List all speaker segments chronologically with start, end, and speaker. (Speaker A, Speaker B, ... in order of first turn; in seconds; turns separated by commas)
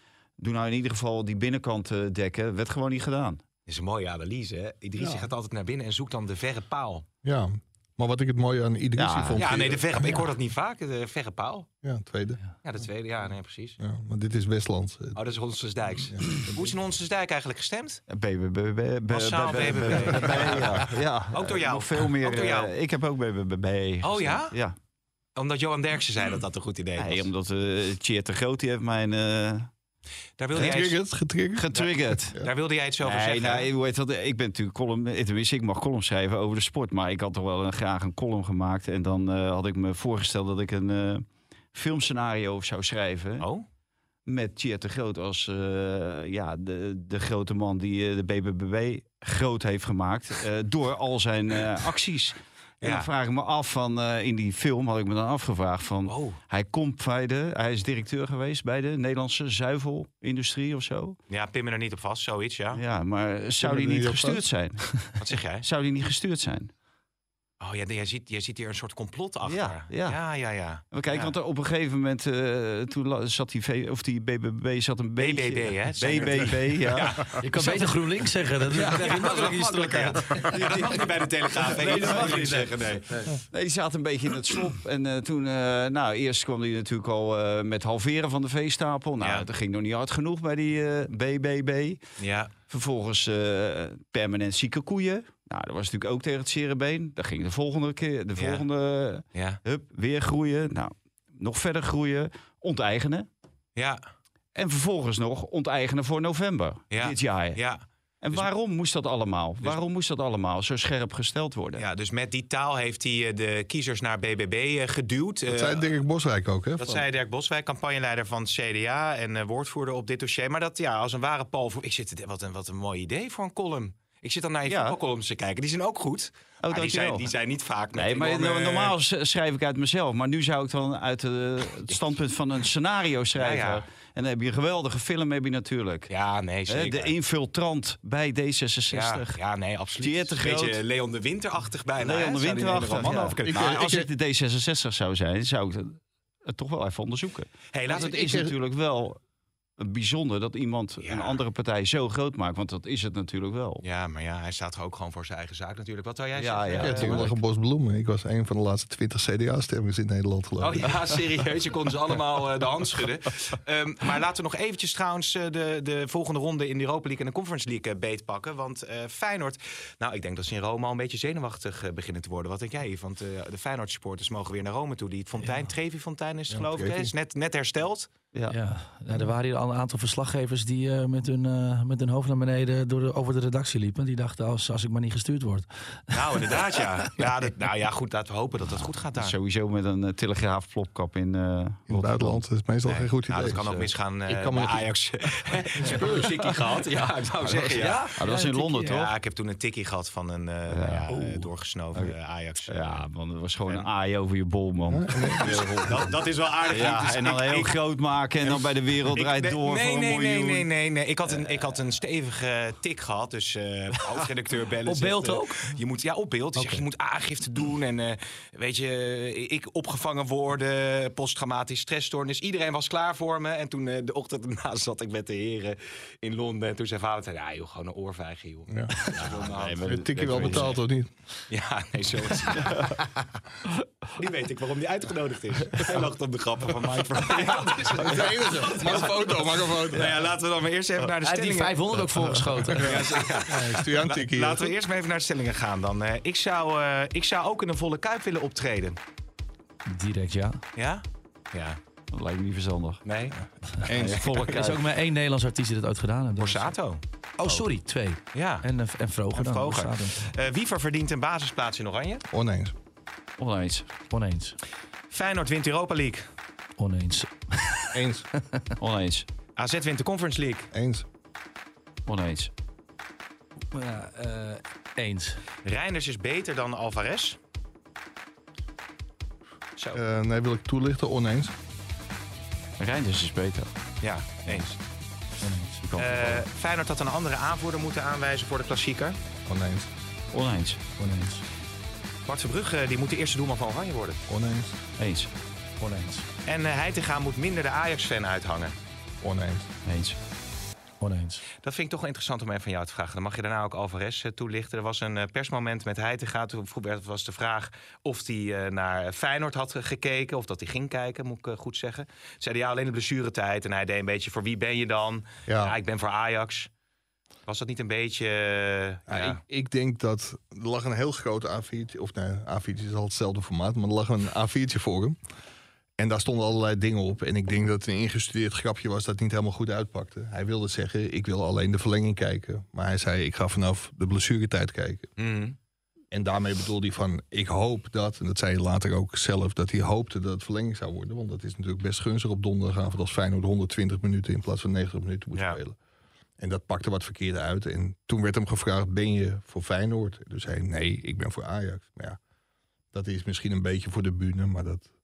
Speaker A: 0.4-3.4, Speaker B: 3.7-7.0, Speaker C: 5.0-5.3, Speaker C: 7.2-10.3, Speaker A: 9.0-9.5, Speaker B: 9.4-11.7, Speaker C: 11.8-12.4, Speaker B: 12.6-13.8, Speaker C: 13.8-15.2, Speaker B: 15.2-18.0, Speaker C: 16.0-16.7, Speaker A: 18.1-24.8, Speaker B: 19.1-22.7, Speaker B: 24.0-24.6, Speaker B: 25.4-27.3, Speaker A: 27.0-29.7, Speaker B: 30.4-31.0, Speaker C: 30.5-31.7, Speaker A: 30.6-30.8, Speaker A: 31.6-32.4, Speaker B: 31.7-33.7, Speaker C: 32.2-32.5, Speaker A: 33.0-43.5, Speaker A: 44.3-61.2, Speaker B: 52.8-53.1, Speaker B: 56.0-56.4, Speaker B: 61.3-62.8, Speaker A: 62.7-65.0, Speaker C: 63.6-64.5, Speaker B: 65.2-65.7, Speaker A: 65.6-66.7, Speaker B: 67.6-71.3, Speaker A: 69.5-70.2, Speaker A: 70.9-77.4, Speaker B: 75.2-77.8, Speaker D: 77.4-81.0, Speaker B: 78.8-83.1, Speaker A: 80.5-81.0, Speaker A: 81.6-92.0, Speaker B: 89.2-89.5, Speaker B: 92.2-92.5, Speaker A: 92.7-103.3, Speaker B: 98.4-98.7, Speaker B: 99.3-99.6, Speaker B: 103.8-104.0, Speaker A: 104.5-107.6, Speaker B: 106.9-108.5, Speaker A: 108.2-111.8, Speaker B: 111.8-115.9, Speaker C: 115.5-117.0, Speaker B: 116.8-128.9, Speaker A: 124.7-125.0, Speaker A: 126.6-127.3, Speaker A: 128.0-136.1, Speaker B: 133.4-133.8, Speaker B: 136.1-137.1, Speaker A: 136.7-139.3, Speaker B: 138.9-143.7, Speaker A: 140.0-140.8, Speaker A: 142.0-149.2, Speaker C: 143.1-144.1, Speaker B: 147.7-148.5, Speaker C: 148.1-148.5, Speaker A: 149.8-153.8, Speaker B: 151.0-151.4, Speaker B: 153.8-157.3, Speaker A: 156.4-157.4, Speaker C: 156.8-161.0, Speaker B: 160.6-178.1, Speaker C: 176.5-177.1, Speaker D: 178.5-186.6, Speaker B: 186.1-189.3, Speaker A: 189.2-192.4, Speaker C: 191.9-194.9, Speaker B: 192.9-198.2, Speaker C: 195.8-196.3, Speaker D: 197.5-198.9, Speaker A: 198.2-199.1, Speaker B: 198.8-203.1, Speaker A: 200.7-201.2, Speaker A: 202.7-206.2, Speaker C: 204.9-205.8, Speaker B: 205.4-207.8, Speaker A: 206.7-210.7, Speaker B: 208.4-230.8, Speaker A: 211.3-211.7, Speaker D: 214.9-215.8, Speaker D: 216.6-216.8, Speaker C: 228.7-231.1, Speaker A: 229.2-230.8, Speaker B: 231.5-233.0, Speaker A: 232.6-233.0, Speaker B: 234.2-242.0, Speaker C: 237.9-240.2, Speaker D: 241.2-243.1, Speaker B: 242.7-249.0, Speaker C: 242.8-244.8, Speaker D: 249.9-250.6, Speaker B: 250.8-251.8, Speaker A: 252.1-253.0, Speaker B: 253.1-253.4, Speaker C: 253.9-254.2, Speaker A: 253.9-254.8, Speaker D: 254.1-256.7, Speaker B: 256.4-257.6, Speaker D: 257.4-260.3, Speaker B: 258.3-258.7, Speaker B: 259.3-262.2, Speaker C: 262.3-262.7, Speaker A: 263.4-263.9, Speaker D: 264.1-264.6, Speaker B: 265.1-266.3, Speaker D: 266.8-268.7, Speaker C: 267.9-268.3, Speaker A: 268.8-269.3, Speaker B: 269.6-270.7, Speaker C: 270.7-271.1, Speaker A: 272.1-272.5, Speaker D: 273.7-275.4, Speaker B: 275.6-277.4, Speaker C: 279.9-281.5, Speaker A: 282.8-283.7, Speaker B: 284.0-284.8, Speaker D: 285.4-285.8, Speaker A: 285.8-286.4, Speaker B: 286.0-289.2, Speaker C: 289.5-289.9, Speaker A: 290.3-290.8, Speaker D: 291.0-291.4, Speaker B: 292.3-294.2, Speaker C: 294.3-294.8, Speaker A: 295.0-295.3, Speaker D: 295.8-296.3, Speaker B: 296.5-298.7, Speaker C: 299.2-299.7, Speaker A: 299.9-300.2, Speaker D: 301.0-301.4, Speaker B: 301.6-316.7, Speaker C: 315.5-315.8, Speaker B: 317.5-319.4, Speaker C: 319.1-325.2, Speaker C: 326.0-335.1, Speaker B: 335.2-335.6, Speaker C: 336.1-345.8, Speaker C: 346.4-352.2, Speaker C: 352.9-354.9